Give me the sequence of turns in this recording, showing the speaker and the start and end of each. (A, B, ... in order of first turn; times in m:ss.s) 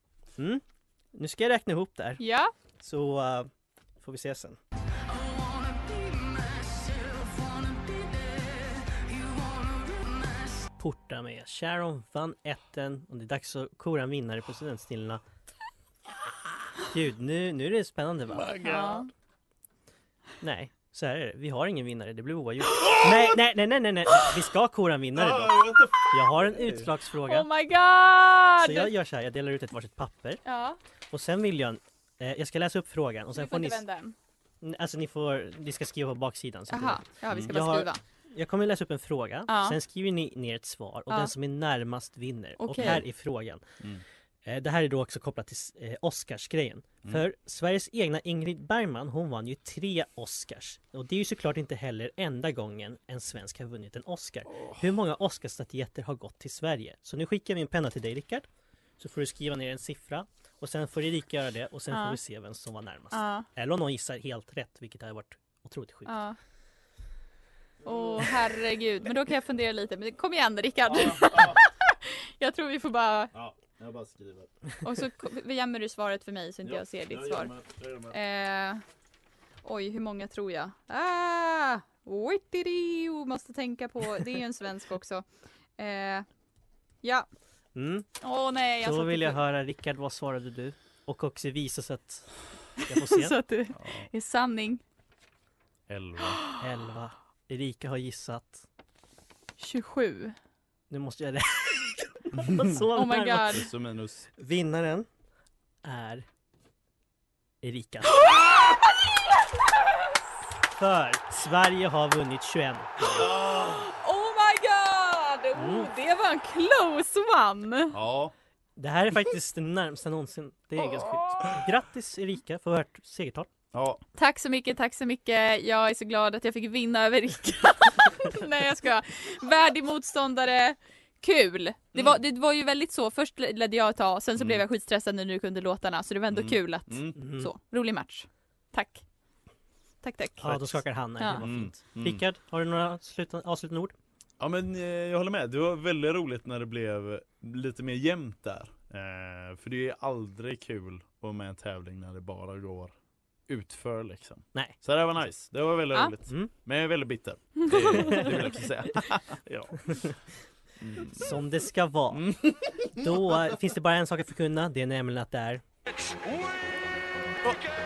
0:00.4-0:02.2 A
0:02.2-0:02.5 B
0:02.8-0:04.6 A
0:10.8-0:15.2 A
0:16.9-0:18.5 A
0:18.3-0:19.1 C
0:18.6-0:19.1 B
0:20.4-0:27.5 A
0:25.1-0:26.9 C
0:27.2-0:28.9 B
0:28.6-0:30.4 A
0:30.4-0:30.8 B
0:31.1-0:33.8 A
0:33.3-0:34.1 B
0:34.6-0:43.6 A
0:36.7-0:38.0 B
0:39.5-0:39.8 B
0:42.6-0:43.0 B
0:44.4-0:58.5 A
0:54.5-0:54.8 C
0:59.0-1:06.2 A
1:01.9-1:02.2 B
1:03.1-1:03.5 B
1:06.1-1:06.4 B
1:07.8-1:13.3 B
1:10.9-1:11.6 C
1:13.3-1:14.5 C
1:14.8-1:17.6 B
1:16.6-1:18.2 C
1:18.1-1:18.8 B
1:19.6-1:25.2 B
1:25.8-1:26.2 B
1:27.0-1:27.3 B
1:27.7-1:28.1 A
1:28.2-1:29.4 B
1:28.8-1:32.3 A
1:32.9-1:33.4 A
1:32.9-1:34.8 B
1:33.7-1:34.1 C
1:35.9-1:36.4 C
1:36.6-1:38.6 A
1:39.6-1:40.4 B
1:40.9-1:43.6 A
1:42.9-1:43.7 B
1:43.5-1:44.3 C
1:44.4-1:45.1 A
1:45.8-1:46.3 A
1:47.6-1:48.2 A
1:48.3-1:48.7 B
1:50.7-1:53.2 A
1:53.1-1:53.9 C
1:53.7-1:58.0 B
1:55.6-1:55.9 A
1:57.9-1:58.3 C
1:58.8-2:03.5 A
2:03.7-2:04.0 C
2:04.1-2:19.0 B
2:14.4-2:14.6 C
2:16.3-2:17.2 C
2:17.2-2:17.5 A
2:20.0-2:21.4 B
2:20.4-2:24.0 A
2:21.4-2:22.2 C
2:24.4-2:32.9 C
2:33.5-2:40.1 C
2:37.9-2:38.4 A
2:39.9-2:40.2 A
2:40.8-2:41.4 C
2:41.0-2:42.2 A
2:42.1-2:43.1 C
2:42.9-2:45.6 A